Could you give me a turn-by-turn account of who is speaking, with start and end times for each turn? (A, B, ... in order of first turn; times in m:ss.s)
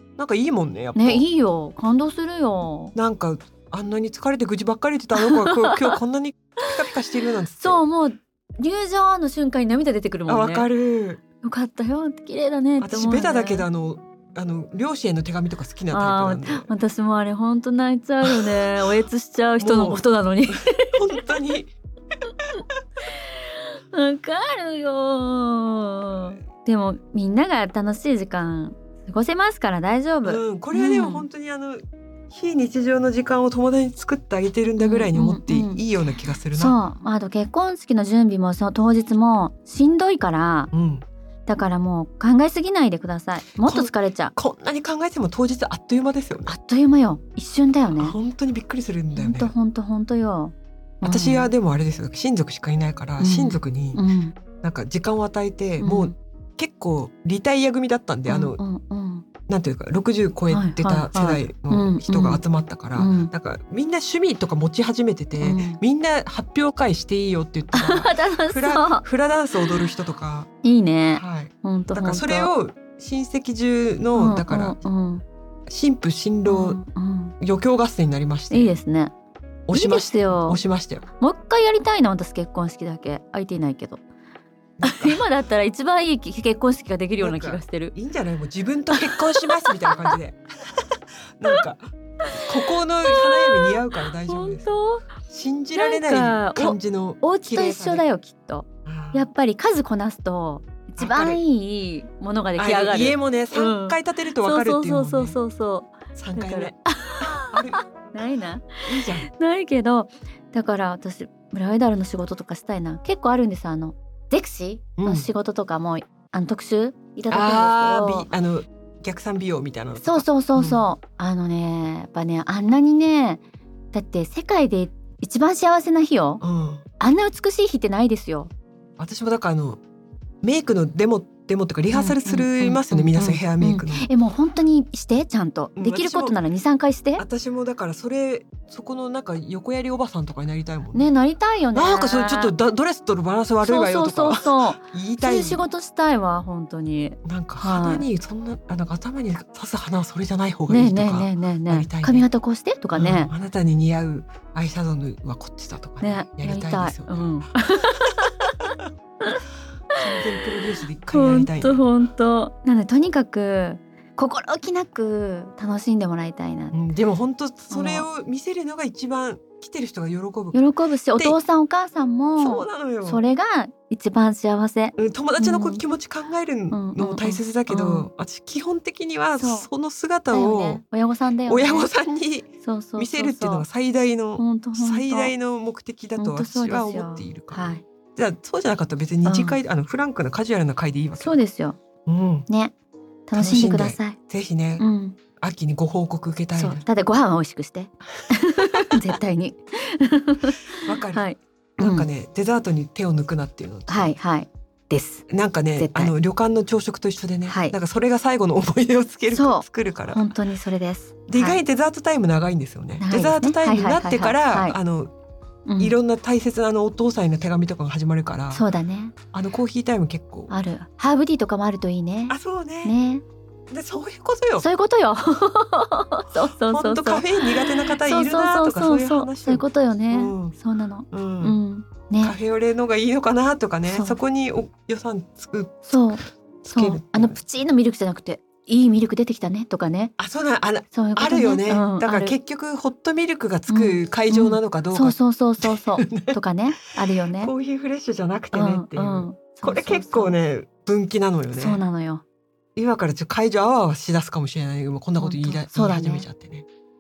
0:00.2-0:01.2 A
0:01.0-0:03.0 B
0:03.0-0:07.8 A
0:05.2-0:05.9 B
0:07.6-0:10.7 B
0:10.3-0:11.2 A
0:11.4-0:13.7 B
0:12.8-0:16.7 A
0:15.9-0:21.2 B
0:18.2-0:18.9 A
0:19.6-0:21.7 A
0:22.5-0:31.3 B
0:30.2-0:36.8 A
0:34.8-0:35.8 B
0:36.6-0:40.7 B
0:40.7-0:41.0 A
0:41.5-0:44.3 B
0:43.6-0:46.5 A
0:46.5-0:48.2 B
0:48.0-0:49.5 A
0:49.2-0:51.5 B
0:51.0-0:54.0 A
0:53.2-0:54.4 B
0:54.6-0:58.6 A
0:55.8-0:56.2 B
0:58.3-0:59.2 B
0:59.5-1:10.5 A
1:00.5-1:02.4 B
1:03.0-1:03.3 B
1:05.4-1:05.8 B
1:07.7-1:09.0 B
1:09.6-1:09.9 B
1:10.6-1:12.5 B
1:11.1-1:14.8 A
1:14.2-1:15.2 B
1:15.7-1:16.8 A
1:16.5-1:17.4 B
1:17.4-1:18.8 A
1:18.5-1:19.1 B
1:19.7-1:21.0 A
1:19.7-1:20.6 B
1:21.2-1:24.0 B
1:24.8-1:25.2 A
1:24.8-1:27.9 B
1:27.2-1:30.8 A
1:29.0-1:30.1 B
1:31.4-1:31.8 A
1:32.4-1:38.0 A
1:33.1-1:35.1 B
1:35.8-1:58.3 B
1:38.8-1:39.3 A
1:41.0-1:41.4 A
1:42.6-1:45.4 A
1:46.2-1:47.8 A
1:48.8-1:49.3 A
1:55.0-1:55.3 A
1:57.3-2:00.8 A
2:00.0-2:06.4 B
2:06.4-2:06.8 A
2:07.0-2:08.5 B
2:09.0-2:09.8 A
2:10.4-2:14.1 A
2:11.9-2:17.2 B
2:15.8-2:16.4 A
2:17.2-2:21.1 A
2:20.9-2:22.5 B
2:21.7-2:25.6 A
2:23.6-2:28.1 B
2:27.2-2:32.3 A
2:30.7-2:33.3 B
2:32.9-2:37.3 A
2:36.0-2:38.7 B
2:40.0-2:41.8 A
2:41.1-2:46.8 B
2:46.7-2:50.6 A
2:47.7-2:48.1 B
2:50.5-2:55.8 B
2:52.4-2:53.2 A
2:55.0-3:00.8 A
2:56.7-2:58.1 B
2:59.4-2:59.7 B
3:00.3-3:01.9 B
3:01.5-3:11.4 A
3:02.6-3:03.6 B
3:04.4-3:05.3 B
3:06.2-3:07.8 B
3:09.2-3:09.6 B
3:11.2-3:11.8 B
3:12.1-3:12.5 A
3:12.5-3:12.7 B
3:13.3-3:14.2 B
3:13.4-3:14.8 A
3:14.8-3:15.2 B
3:15.4-3:16.8 A
3:16.6-3:22.1 B
3:18.6-3:18.9 A
3:20.8-3:21.3 A
3:21.8-3:24.2 A
3:23.9-3:25.2 B
3:25.3-3:30.3 A
3:25.8-3:26.1 B
3:27.5-3:27.8 B
3:29.3-3:31.6 B
3:31.3-3:35.1 A
3:33.0-3:34.8 B
3:35.7-3:36.0 B
3:35.8-3:38.6 A
3:38.5-3:39.2 B
3:39.3-3:40.5 A
3:40.5-3:43.2 B
3:42.3-3:43.0 A
3:43.7-3:44.7 A
3:44.6-3:52.4 B
3:46.7-3:50.6 A
3:51.1-3:51.6 A
3:52.2-3:56.0 A
3:53.8-3:54.2 B
3:55.9-4:00.1 B
3:56.6-3:57.4 A
4:00.2-4:06.4 A
4:00.9-4:02.4 B
4:03.7-4:07.5 B
4:07.3-4:11.8 A
4:08.5-4:10.4 B
4:11.5-4:12.2 B
4:12.8-4:16.7 A
4:15.2-4:16.3 B